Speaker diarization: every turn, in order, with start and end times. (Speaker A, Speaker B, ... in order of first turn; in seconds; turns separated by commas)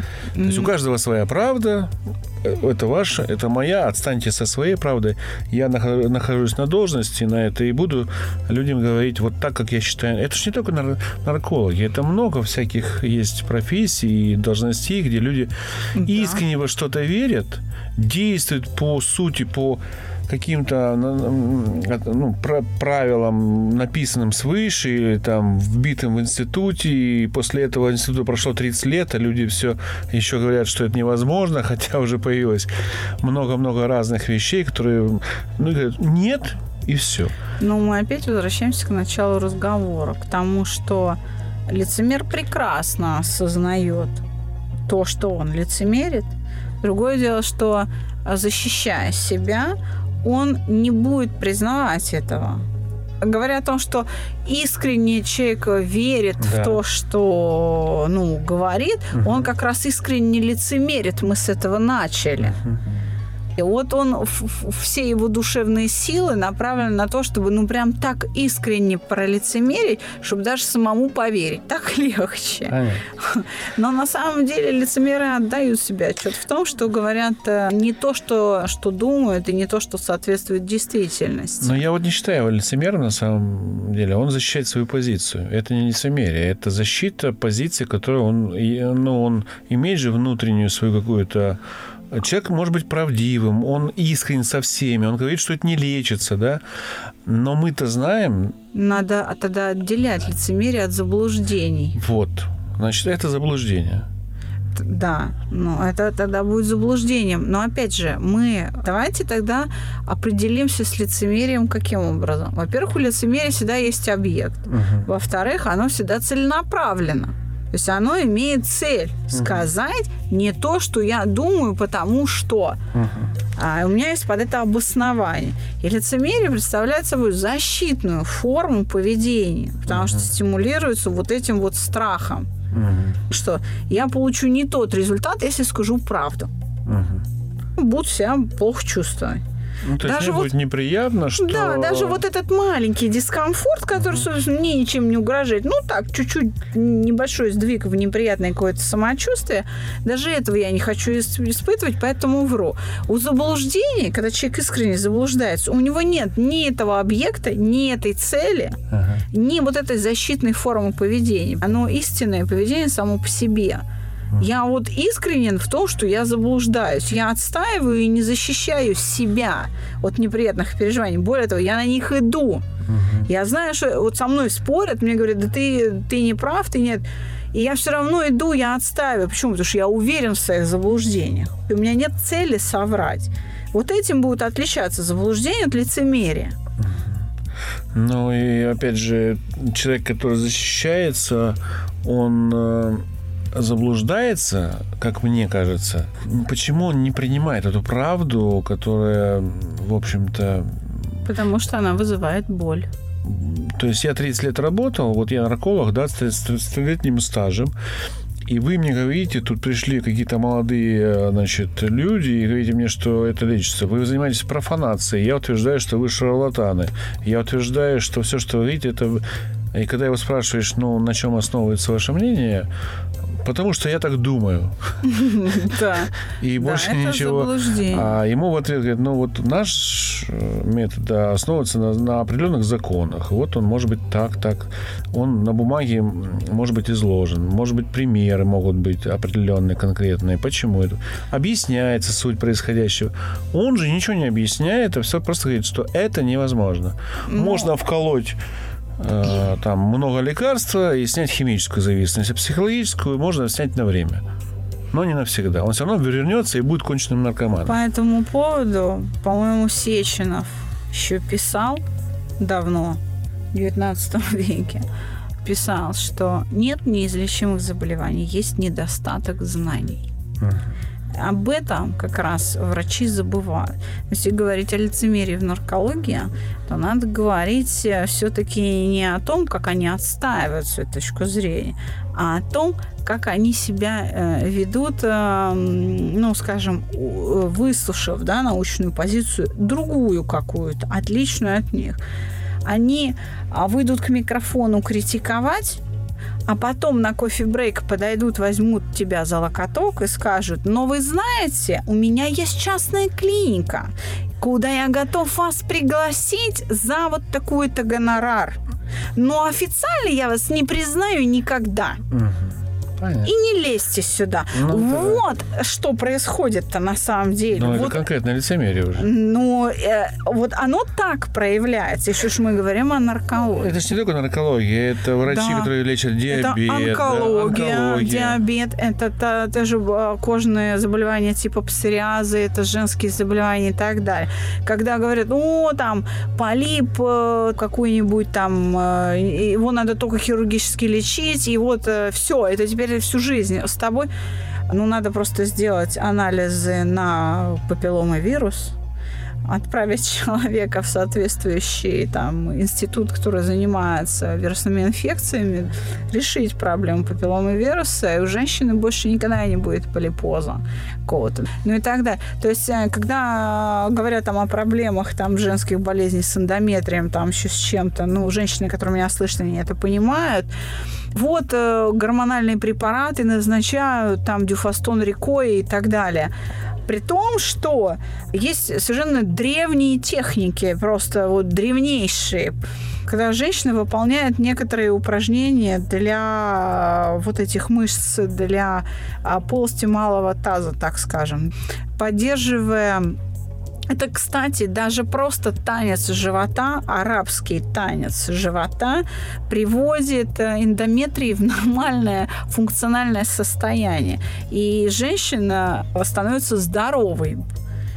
Speaker A: 0.3-0.7, Speaker B: 0.4-32.7, Speaker A: 15.9-16.4, Speaker B: 33.2-37.3, Speaker A: 37.6-44.2, Speaker A: 44.9-52.6, Speaker A: 53.2-62.6, Speaker B: 56.4-56.8, Speaker B: 59.1-59.5, Speaker B: 62.5-62.8, Speaker A: 63.5-81.8, Speaker B: 72.7-73.0, Speaker B: 81.6-96.6, Speaker B: 97.2-98.6, Speaker A: 98.7-102.0, Speaker B: 102.0-104.1, Speaker A: 104.7-122.8, Speaker B: 114.7-115.1, Speaker B: 119.3-119.7, Speaker B: 122.9-123.3, Speaker A: 123.6-132.5, Speaker B: 129.9-130.3, Speaker B: 132.7-133.2, Speaker A: 133.3-136.5, Speaker B: 136.8-137.2, Speaker A: 137.8-139.4, Speaker B: 139.8-142.2, Speaker A: 140.0-140.5, Speaker A: 141.4-158.8, Speaker B: 144.0-144.2, Speaker B: 158.9-159.2, Speaker A: 159.3-163.8, Speaker A: 164.4-172.6, Speaker B: 172.9-173.2, Speaker A: 173.2-186.6, Speaker B: 186.8-187.2, Speaker B: 187.9-201.2, Speaker A: 201.2-202.9, Speaker B: 203.2-207.7, Speaker B: 208.5-222.7, Speaker B: 223.3-224.9, Speaker A: 225.0-228.2, Speaker B: 226.4-248.4, Speaker A: 247.3-247.7, Speaker B: 249.0-254.2, Speaker B: 254.9-257.8, Speaker A: 257.6-261.8, Speaker A: 262.4-263.0, Speaker A: 263.5-264.8, Speaker A: 265.4-270.1, Speaker B: 270.4-270.7, Speaker A: 271.1-292.0, Speaker A: 292.6-295.8, Speaker A: 296.5-308.6, Speaker A: 309.1-312.0, Speaker B: 312.1-313.3, Speaker A: 313.2-318.0, Speaker B: 314.5-315.2, Speaker B: 317.5-319.1, Speaker A: 318.9-323.7, Speaker B: 323.6-328.4, Speaker A: 325.3-325.7, Speaker A: 326.3-344.1, Speaker A: 344.7-348.7, Speaker A: 349.4-370.5, Speaker A: 371.1-376.3, Speaker A: 376.9-393.2, Speaker A: 393.9-407.4